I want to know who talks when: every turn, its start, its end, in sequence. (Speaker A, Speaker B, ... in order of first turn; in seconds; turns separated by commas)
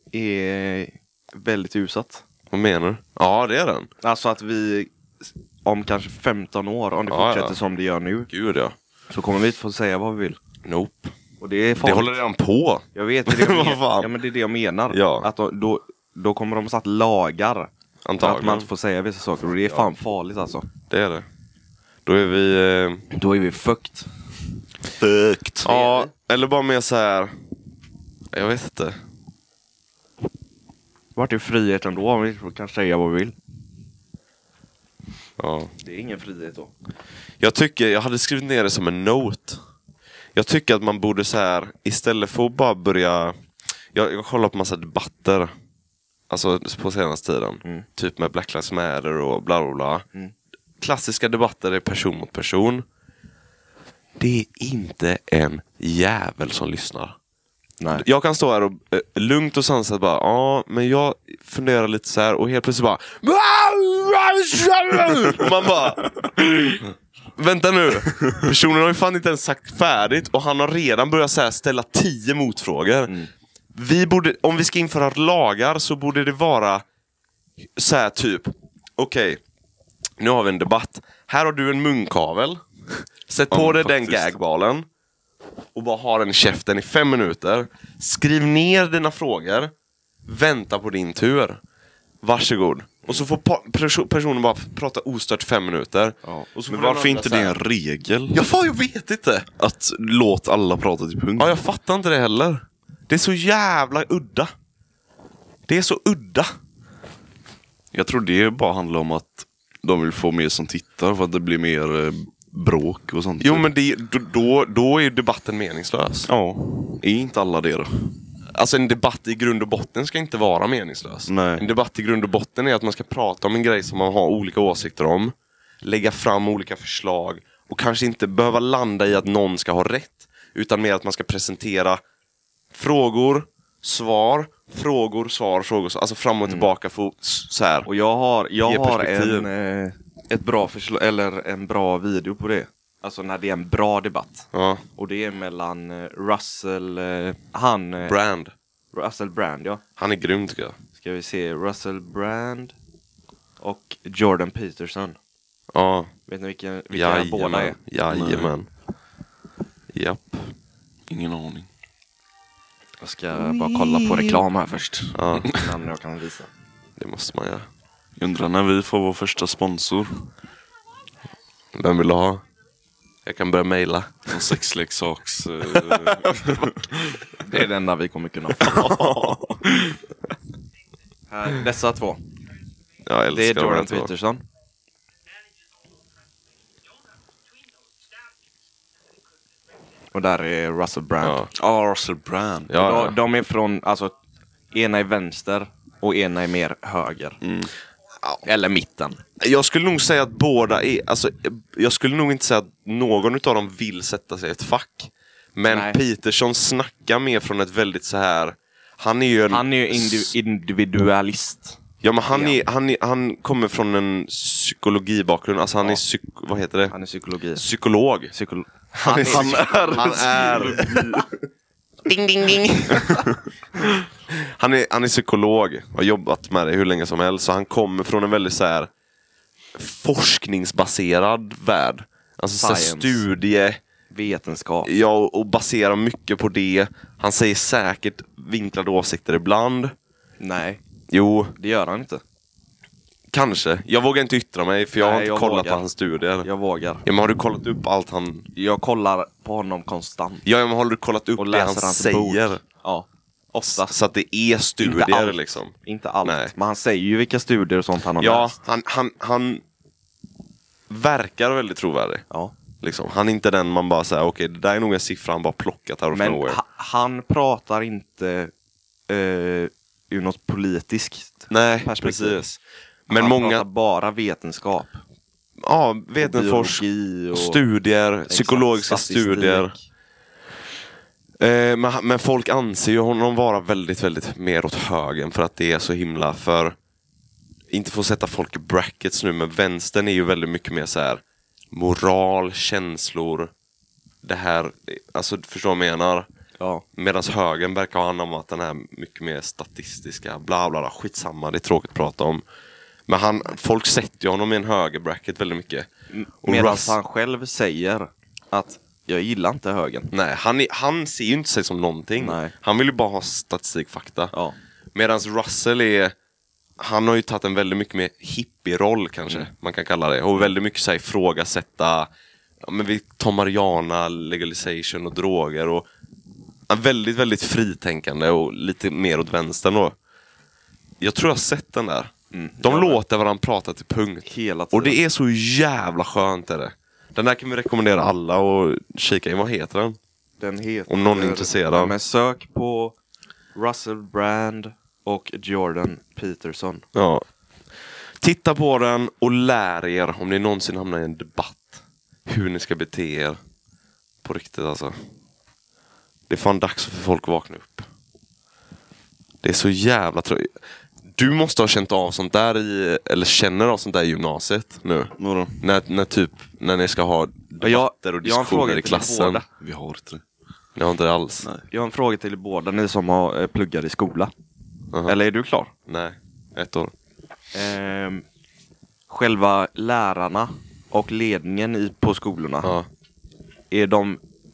Speaker A: 0.1-2.2, Speaker B: 2.5-3.9, Speaker A: 4.0-4.9, Speaker A: 5.6-8.3, Speaker B: 7.1-7.6, Speaker B: 8.3-8.7, Speaker A: 9.1-10.4, Speaker B: 10.6-11.1, Speaker A: 11.4-12.2, Speaker B: 11.8-14.1, Speaker A: 12.9-20.7, Speaker B: 14.9-15.3, Speaker B: 18.0-18.7, Speaker B: 20.9-21.2, Speaker B: 22.0-23.0, Speaker A: 23.1-24.1, Speaker C: 25.0-25.6, Speaker A: 25.6-26.1, Speaker B: 25.6-27.3, Speaker B: 28.3-29.0, Speaker A: 31.1-33.3, Speaker B: 35.4-35.7, Speaker A: 35.8-36.7, Speaker B: 37.4-39.6, Speaker B: 40.3-43.3, Speaker B: 43.9-45.5, Speaker B: 46.3-50.0, Speaker B: 50.8-52.8, Speaker B: 54.2-57.1, Speaker A: 57.8-58.0, Speaker B: 58.0-73.2, Speaker B: 73.7-76.8, Speaker B: 77.8-79.4, Speaker B: 80.2-84.8, Speaker C: 83.5-84.4, Speaker B: 85.7-89.7, Speaker B: 90.2-91.6, Speaker B: 92.2-97.6, Speaker C: 96.7-98.4, Speaker B: 98.3-99.5, Speaker C: 99.6-101.6, Speaker B: 101.4-104.5, Speaker B: 105.7-106.5, Speaker C: 107.9-113.7, Speaker B: 113.4-116.3, Speaker C: 116.3-117.9, Speaker B: 118.5-132.0, Speaker C: 121.3-121.7, Speaker B: 132.7-137.9, Speaker A: 137.8-148.1, Speaker B: 138.6-139.5, Speaker B: 144.5-144.8, Speaker B: 148.0-148.5, Speaker A: 148.9-149.8, Speaker B: 150.0-150.8, Speaker A: 151.0-152.7, Speaker A: 153.6-155.2, Speaker B: 155.7-156.1, Speaker A: 156.3-157.8, Speaker B: 156.9-158.7, Speaker C: 158.1-158.5, Speaker B: 159.9-160.5, Speaker C: 161.1-161.7, Speaker A: 163.0-166.5, Speaker C: 163.5-164.4, Speaker B: 165.1-165.5, Speaker B: 167.0-167.7, Speaker C: 168.2-170.2, Speaker B: 171.7-172.4, Speaker B: 173.2-174.3, Speaker C: 174.3-177.0, Speaker A: 177.4-178.9, Speaker B: 178.6-179.6, Speaker A: 181.3-182.2, Speaker B: 183.1-184.1, Speaker A: 183.3-184.4, Speaker A: 190.1-191.4, Speaker B: 191.2-191.5, Speaker C: 191.5-192.7, Speaker B: 192.7-193.2, Speaker A: 192.8-194.1, Speaker A: 194.7-197.4, Speaker C: 197.4-197.7, Speaker A: 198.4-199.2, Speaker B: 199.4-210.3, Speaker A: 205.7-206.0, Speaker A: 209.5-211.8, Speaker B: 212.0-216.9, Speaker A: 212.3-212.6, Speaker A: 216.9-217.6, Speaker B: 217.5-218.3, Speaker A: 218.3-221.2, Speaker B: 218.9-220.8, Speaker C: 219.2-221.3, Speaker B: 222.1-228.9, Speaker A: 222.4-223.2, Speaker B: 229.7-233.8, Speaker A: 232.6-233.2, Speaker A: 234.1-234.9, Speaker B: 234.8-239.9, Speaker A: 240.4-240.8, Speaker B: 241.1-241.6, Speaker A: 241.6-242.2, Speaker B: 243.3-246.5, Speaker A: 245.0-245.9, Speaker A: 246.4-247.0, Speaker B: 247.0-248.5, Speaker A: 248.6-250.4, Speaker B: 250.4-252.6, Speaker A: 251.4-253.9, Speaker B: 253.6-256.5, Speaker A: 254.8-258.6, Speaker B: 258.2-259.6, Speaker B: 260.9-262.2, Speaker B: 262.8-266.6, Speaker A: 266.1-268.5, Speaker A: 269.1-272.5, Speaker B: 271.5-272.5, Speaker B: 273.1-273.6, Speaker A: 273.1-275.0, Speaker B: 275.6-279.7, Speaker A: 276.2-277.6, Speaker A: 278.3-279.8, Speaker B: 281.4-286.8, Speaker B: 287.7-293.5, Speaker B: 294.2-296.3, Speaker A: 296.6-296.8, Speaker B: 296.9-302.4, Speaker B: 303.1-305.9, Speaker A: 306.1-310.1, Speaker B: 306.4-307.0, Speaker B: 310.1-314.3, Speaker A: 312.2-312.5, Speaker B: 314.9-316.1, Speaker B: 316.8-322.1, Speaker B: 322.6-325.9, Speaker B: 326.7-329.9, Speaker B: 331.0-340.0, Speaker A: 332.3-333.0, Speaker A: 334.2-335.0, Speaker A: 340.4-342.9, Speaker B: 340.9-341.9, Speaker A: 343.5-346.8, Speaker B: 346.9-347.2, Speaker B: 348.2-353.4, Speaker B: 354.2-354.9, Speaker B: 356.3-357.9, Speaker B: 359.4-360.5, Speaker B: 361.1-369.4, Speaker C: 365.2-365.6, Speaker A: 367.6-369.5, Speaker C: 369.6-370.2, Speaker B: 370.8-371.5, Speaker A: 371.7-374.3, Speaker A: 375.1-375.7, Speaker B: 375.9-376.9, Speaker A: 377.5-378.2, Speaker A: 379.1-382.7, Speaker A: 383.7-384.2